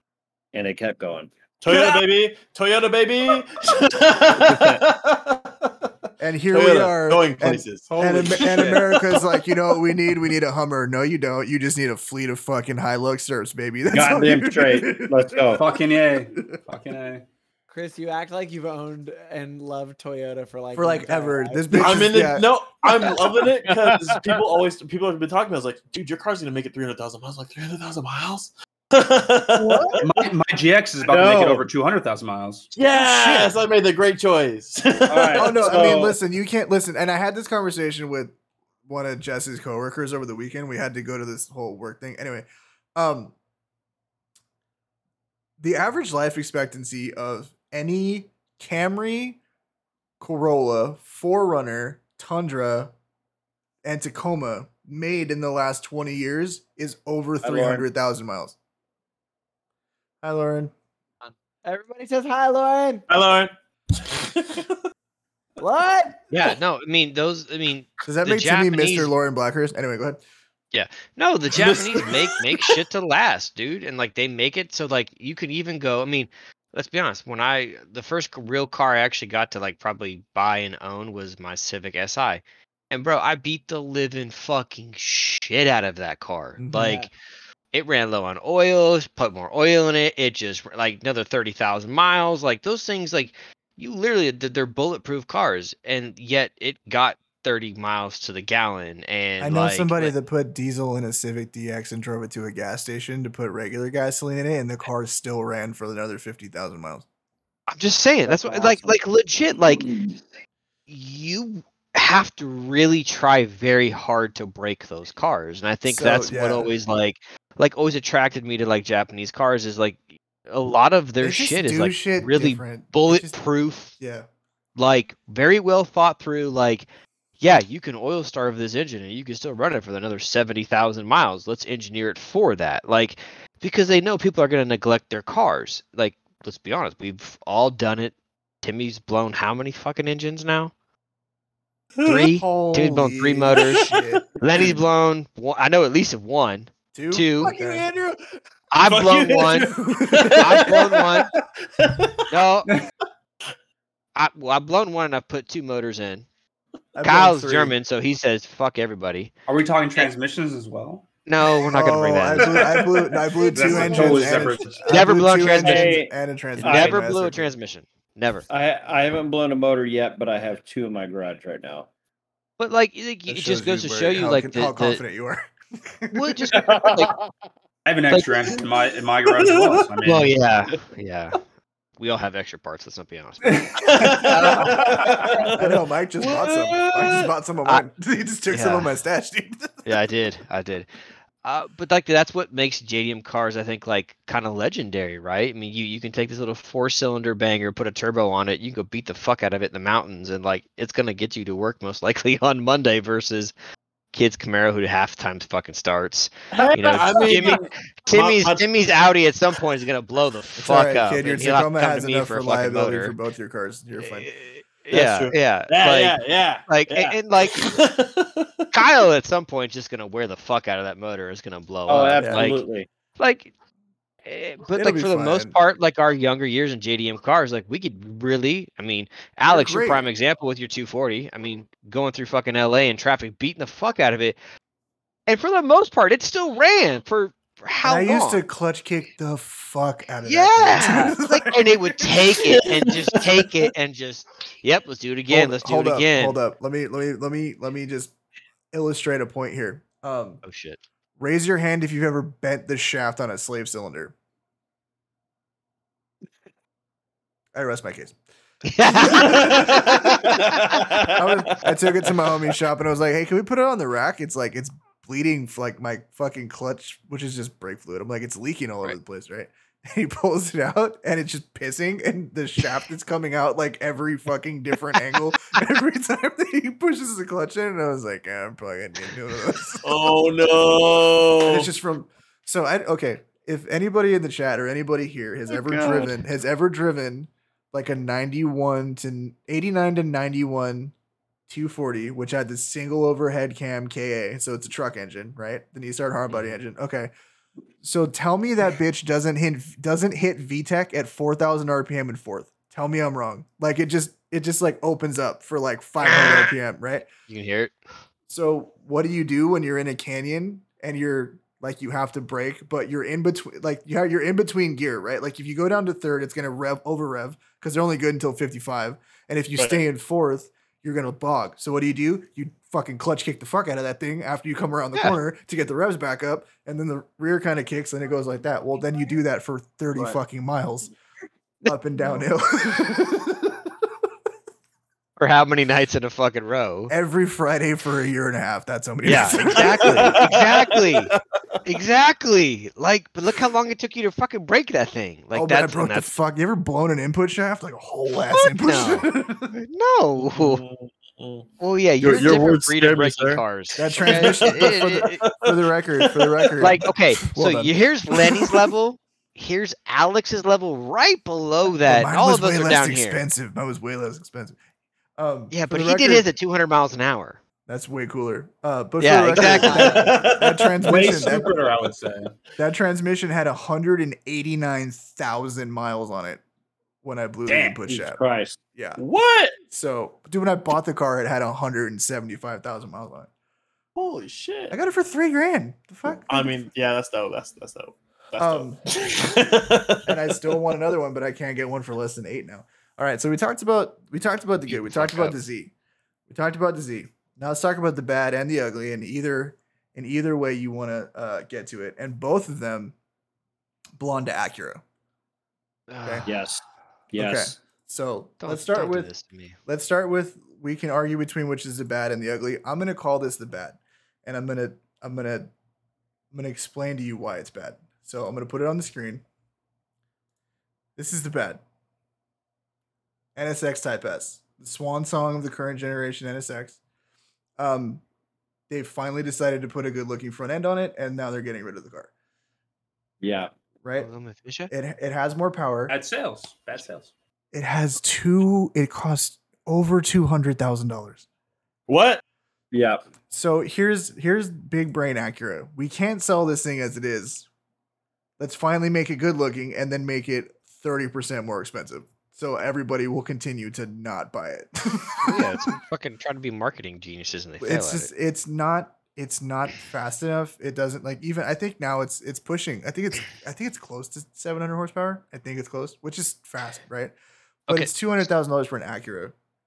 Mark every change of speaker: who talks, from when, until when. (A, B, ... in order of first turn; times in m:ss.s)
0:00.5-0:01.3 A
0:01.6-0:05.9 B
0:04.3-0:04.8 A
0:06.2-0:15.6 C
0:06.5-0:09.4 B
0:07.9-0:08.8 D
0:13.9-0:15.6 A
0:15.5-0:17.2 D
0:17.7-0:21.9 E
0:20.7-0:22.5 C
0:21.7-0:30.0 B
0:23.6-0:24.4 F
0:30.0-0:32.7 D
0:32.7-0:36.0 B
0:33.0-0:33.6 C
0:35.1-0:36.1 D
0:35.4-0:38.3 C
0:38.8-0:43.3 C
0:45.6-0:49.4 C
0:50.2-0:52.9 C
0:53.8-0:58.5 C
0:57.4-0:57.8 A
1:00.2-1:00.7 C
1:01.2-1:03.0 E
1:03.1-1:04.8 B
1:05.6-1:06.2 E
1:06.3-1:09.1 F
1:08.0-1:10.2 C
1:10.7-1:27.1 F
1:11.5-1:12.8 B
1:26.6-1:27.0 C
1:26.8-1:27.1 E
1:27.7-1:40.1 F
1:39.4-1:47.0 C
1:47.7-1:49.9 F
1:48.2-1:49.0 A
1:50.9-2:04.0 F
1:55.8-1:56.7 C
2:01.2-2:03.4 C
2:04.0-2:04.2 C
2:04.8-2:06.9 F
2:07.4-2:20.7 F
2:22.0-2:22.3 B
2:22.0-2:23.9 F
2:22.2-2:24.3 C
2:23.6-2:24.7 B
2:24.4-2:27.6 F
2:26.9-2:27.9 C
2:27.4-2:28.2 B
2:28.7-2:29.7 F
2:28.8-2:32.5 B
2:29.5-2:30.6 C
2:30.3-2:31.3 F
2:32.3-2:32.7 F
2:34.2-2:36.2 F
2:37.0-2:37.8 C
2:37.0-2:39.3 F
2:39.5-2:41.0 D
2:41.2-2:42.6 F
2:41.7-2:47.5 C
2:42.4-2:45.1 D
2:43.9-2:44.4 B
2:44.0-2:44.3 F
2:44.8-2:46.0 F
2:45.5-2:47.0 A
2:46.6-2:48.4 F
2:48.5-2:51.9 A
2:52.6-2:55.0 F
2:53.3-2:56.7 C
2:56.1-2:57.1 F
2:56.6-2:57.1 B
2:57.8-3:00.4 D
2:58.1-2:58.5 F
2:59.4-2:59.8 B
3:00.0-3:01.4 F
3:02.0-3:05.2 F
3:03.8-3:07.0 B
3:04.0-3:09.9 C
3:08.5-3:08.9 F
3:09.8-3:10.9 F
3:11.4-3:23.5 F
3:24.1-3:33.2 F
3:26.5-3:28.7 B
3:30.6-3:34.3 C
3:34.0-3:37.6 F
3:34.9-3:38.8 B
3:38.7-3:42.6 F
3:41.9-3:42.9 A
3:42.2-3:42.5 C
3:43.2-3:43.5 F
3:44.2-3:54.4 F
3:44.7-3:45.6 C
3:49.5-3:50.0 C
3:55.3-3:58.4 F
3:57.8-4:02.3 C
4:00.2-4:06.4 F
4:02.4-4:03.6 B
4:05.3-4:08.1 C
4:08.7-4:10.4 C
4:10.4-4:10.8 F
4:11.2-4:14.1 C
4:17.5-4:18.2 C
4:18.6-4:21.0 F
4:18.8-4:20.4 C
4:19.3-4:20.9 B
4:21.0-4:40.0 C
4:39.8-4:41.7 B
4:41.4-4:50.9 C
4:45.5-4:46.1 B
4:51.5-4:57.1 C
4:56.3-4:56.6 F
4:57.8-5:07.1 C
5:06.0-5:06.5 F
5:07.3-5:07.7 F
5:08.3-5:30.9 C
5:31.6-5:33.7 C
5:35.2-5:36.9 F
5:36.9-5:40.2 C
5:39.0-5:46.1 F
5:39.1-5:41.2 B
5:45.3-5:49.3 C
5:48.6-5:50.6 F
5:50.2-5:51.5 B
5:51.6-5:55.2 F
5:52.0-5:56.9 B
5:53.8-5:57.7 C
5:56.6-6:03.2 F
5:58.2-5:58.6 B
6:01.8-6:04.6 C
6:05.2-6:06.3 C
6:05.5-6:07.4 F
6:07.7-6:11.5 C
6:09.0-6:10.1 F
6:09.4-6:10.0 E
6:09.8-6:11.7 B
6:10.8-6:12.3 D
6:12.6-6:16.4 C
6:17.0-6:18.2 C
6:17.4-6:17.8 D
6:17.8-6:18.6 A
6:18.7-6:19.0 C
6:19.0-6:19.5 B
6:19.7-6:23.3 C
6:23.9-6:24.8 B
6:24.7-6:26.6 C
6:26.3-6:30.6 B
6:28.4-6:28.8 C
6:30.0-6:35.7 C
6:34.6-6:35.4 F
6:36.3-6:42.9 C
6:44.0-6:44.8 C
6:45.9-6:46.3 F
6:46.2-6:47.6 A
6:47.2-6:49.1 C
6:48.4-6:49.6 F
6:49.6-6:55.5 C
6:56.3-6:59.2 C
7:01.0-7:01.6 C
7:03.4-7:06.8 C
7:07.6-7:08.0 C
7:08.7-7:12.1 C
7:13.2-7:13.5 A
7:13.8-7:14.1 C
7:13.9-7:14.7 F
7:14.7-7:15.9 C
7:15.9-7:17.1 D
7:17.5-7:21.2 C
7:21.9-7:22.2 B
7:22.7-7:23.0 A
7:23.3-7:27.5 C
7:28.4-7:35.6 C
7:35.2-7:38.1 F
7:37.6-7:47.1 C
7:47.7-7:49.3 C